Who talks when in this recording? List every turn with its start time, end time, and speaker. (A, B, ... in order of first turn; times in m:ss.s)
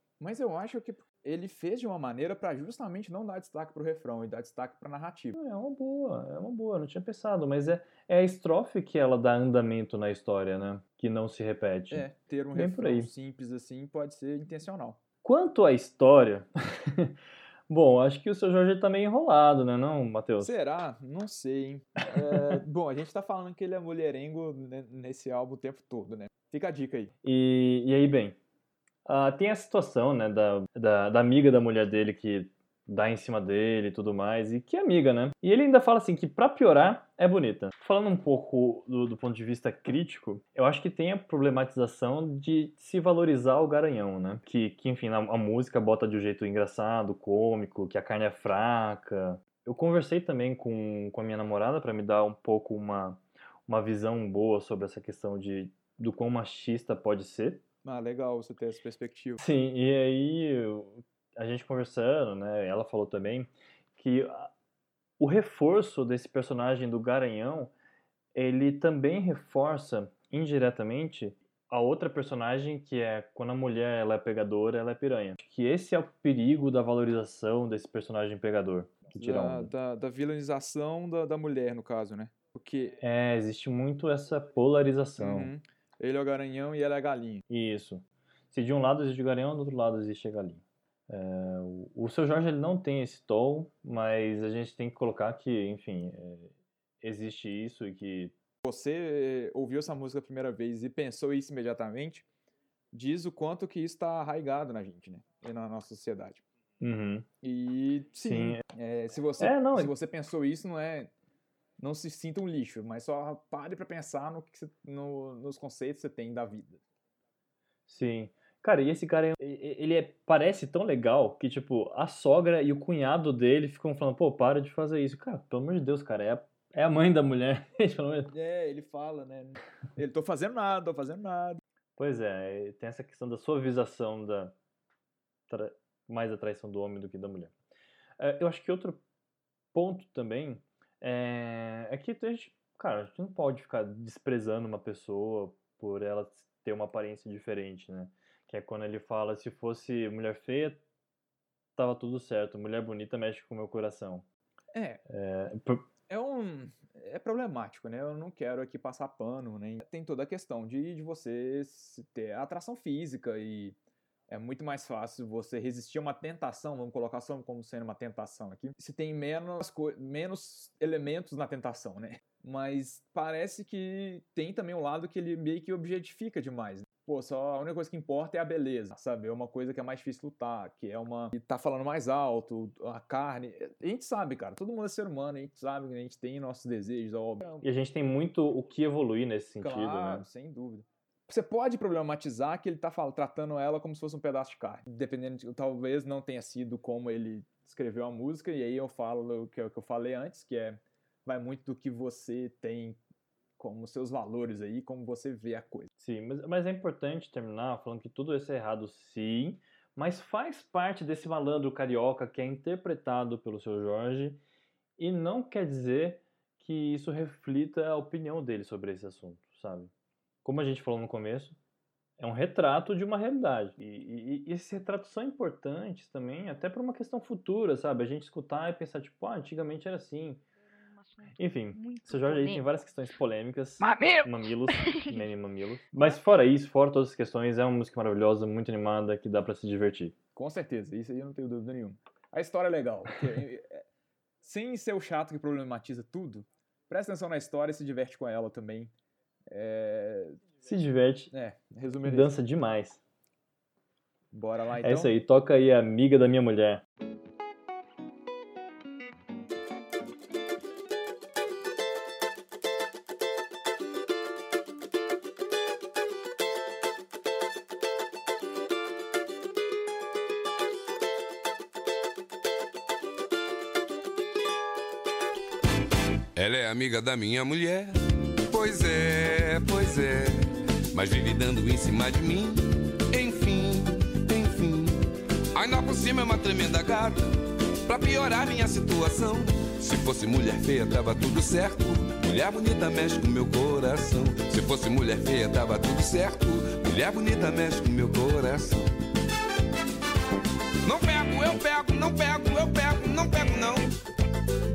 0:00.2-0:05.4 A
0:05.4-0:13.1 B
0:11.9-0:15.0 A
0:15.2-0:17.2 B
0:17.7-0:20.5 B
0:20.4-0:27.1 A
0:27.2-0:28.4 B
0:29.1-0:57.6 B
0:57.8-0:59.4 A
0:59.4-1:04.5 B
1:05.2-1:07.7 B
1:08.4-1:19.7 B
1:19.2-1:23.0 A
1:23.0-1:25.5 B
1:25.2-1:27.4 A
1:27.5-1:38.3 B
1:38.6-1:42.2 A
1:42.9-1:46.4 A
1:46.8-1:47.3 B
1:47.4-1:51.1 A
1:48.3-1:48.6 B
1:49.4-1:49.9 B
1:51.8-1:56.8 A
1:57.9-2:08.3 B
2:08.3-2:11.6 A
2:12.0-2:14.6 B
2:15.5-2:17.5 B
2:18.2-2:19.0 B
2:19.7-2:30.8 B
2:31.8-2:34.2 B
2:34.7-2:35.0 A
2:35.1-2:35.8 B
2:36.1-2:43.8 A
2:44.3-3:07.6 A
3:07.6-3:10.2 B
3:09.6-3:23.0 A
3:23.6-3:25.9 A
3:26.0-3:34.4 B
3:35.0-3:39.9 B
3:40.4-3:41.6 B
3:42.2-3:50.4 B
3:51.4-4:00.2 B
4:00.4-4:03.9 A
4:04.4-4:08.9 A
4:09.5-4:10.4 A
4:10.6-4:11.3 B
4:11.3-4:12.4 A
4:12.0-4:13.0 B
4:14.3-4:15.2 A
4:14.8-4:16.8 B
4:36.4-4:58.9 C
5:00.8-5:04.0 C